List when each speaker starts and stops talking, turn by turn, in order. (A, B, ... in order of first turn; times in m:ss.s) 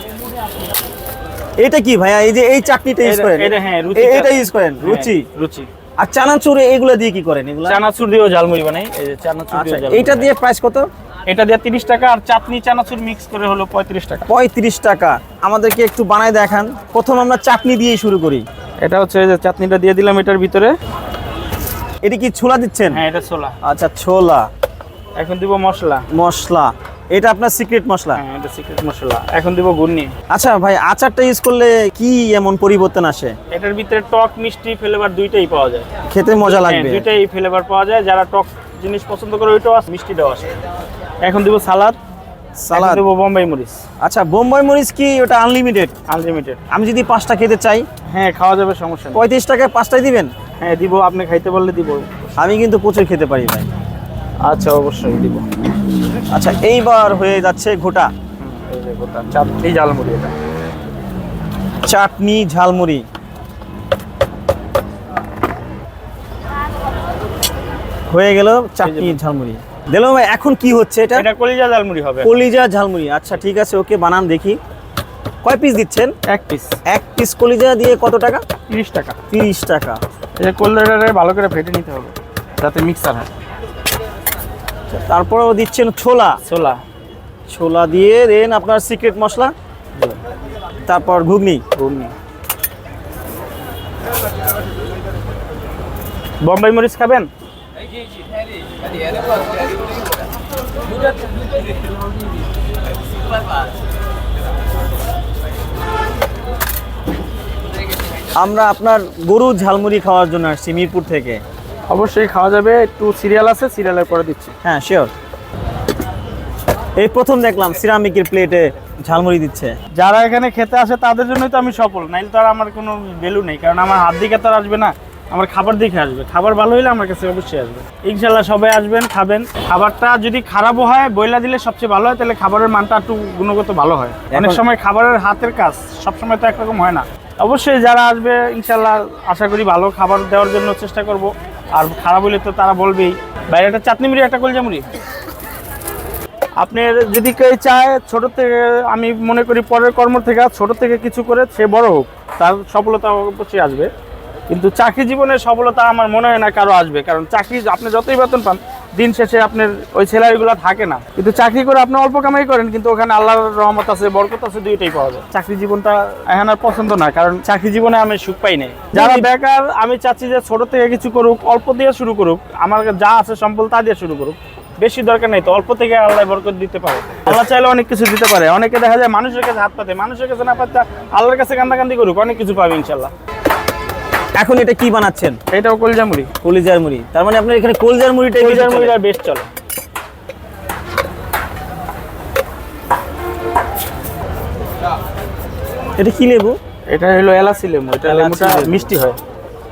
0:01.6-0:05.3 A
0:03.0-0:05.7 B
0:06.0-0:07.8 A
0:07.7-0:10.3 B
0:09.5-0:10.9 A
0:11.3-0:14.3 B
0:14.3-0:18.4 A
0:18.8-0:20.7 B
0:22.0-0:23.0 A
0:22.9-0:23.6 B
0:23.6-0:24.5 A
0:25.2-0:26.0 B
0:26.1-0:28.2 A
0:28.2-0:30.1 B
0:30.3-0:33.4 A
0:33.5-0:35.9 B
0:36.1-0:37.1 A
0:36.5-0:40.5 B
0:41.2-0:42.0 B
0:42.6-0:43.0 A
0:42.7-0:43.8 B
0:44.0-0:45.9 A
0:46.1-0:46.6 B
0:46.7-0:47.8 A
0:48.1-0:49.2 B
0:49.1-0:50.3 A
0:50.6-0:52.4 B
0:52.4-0:53.7 A
0:54.4-0:55.5 B
0:56.3-0:58.1 A
0:58.4-1:00.3 B
1:01.8-1:03.0 A
1:08.1-1:11.3 A
1:08.8-1:09.2 B
1:11.2-1:12.3 B
1:12.2-1:14.6 A
1:15.4-1:16.1 A
1:16.3-1:16.8 B
1:16.9-1:18.4 A
1:18.7-1:19.2 B
1:19.3-1:20.0 A
1:20.4-1:23.3 B
1:24.9-1:26.4 A
1:26.4-1:26.8 B
1:27.5-1:29.5 A
1:30.9-1:31.6 A
1:31.7-1:32.2 B
1:36.4-1:37.3 B
1:48.4-1:51.4 A
1:51.9-1:54.5 B
1:54.6-1:55.1 A
1:57.0-1:59.8 A
2:00.0-2:24.9 B
2:14.3-2:14.6 A
2:26.6-2:33.9 B
2:34.5-3:03.1 B
2:48.9-2:49.3 A
3:04.4-3:05.4 A
3:05.5-3:06.3 B
3:06.4-3:09.0 A
3:08.4-3:09.5 B
3:16.0-3:16.6 A
3:16.9-3:19.2 B
3:18.0-3:18.9 A